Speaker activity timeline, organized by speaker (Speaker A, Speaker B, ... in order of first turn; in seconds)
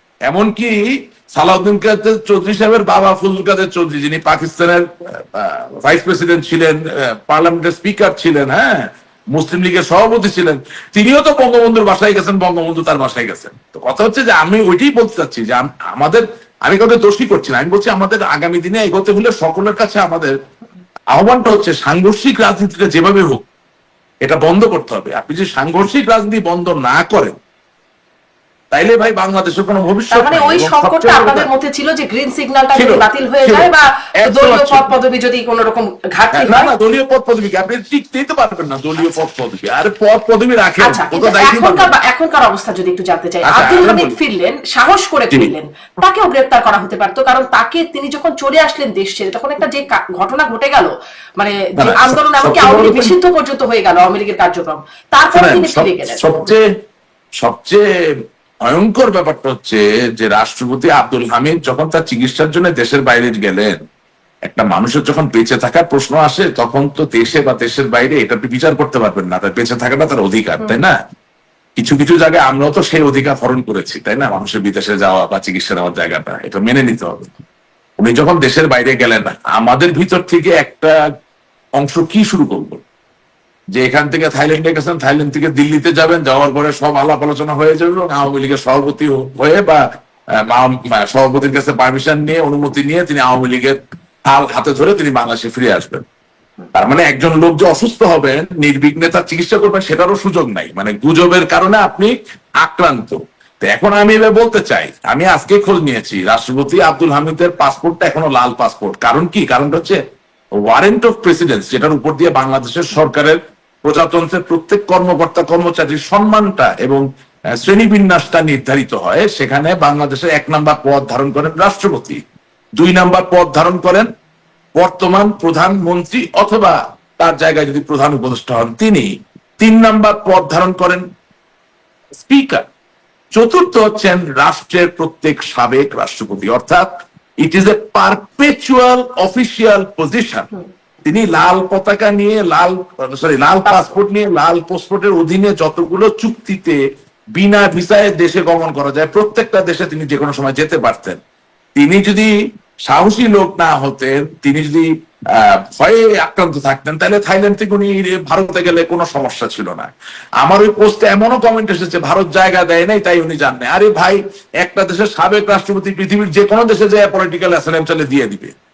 Speaker A: 0.3-20.4, 21.1-23.4, 24.2-27.3, 28.7-31.5, 32.7-33.7, 34.2-34.9, 36.3-41.9, 43.4-44.2, 51.8-53.1, 55.3-56.6, 57.4-57.8, 58.6-63.8, 64.5-70.9, 71.8-77.3, 78.0-81.0, 81.8-82.8, 83.7-89.8, 90.5-96.0, 96.7-110.0, 110.6-117.0, 117.5-122.2, 122.8-124.1, 124.8-131.0, 132.1-132.7, 133.3-136.9, 137.4-140.5, 141.0-146.8, 147.3-151.2, 151.7-152.3, 152.8-168.5
Speaker B: 30.1-36.7, 40.8-56.2, 143.7-143.9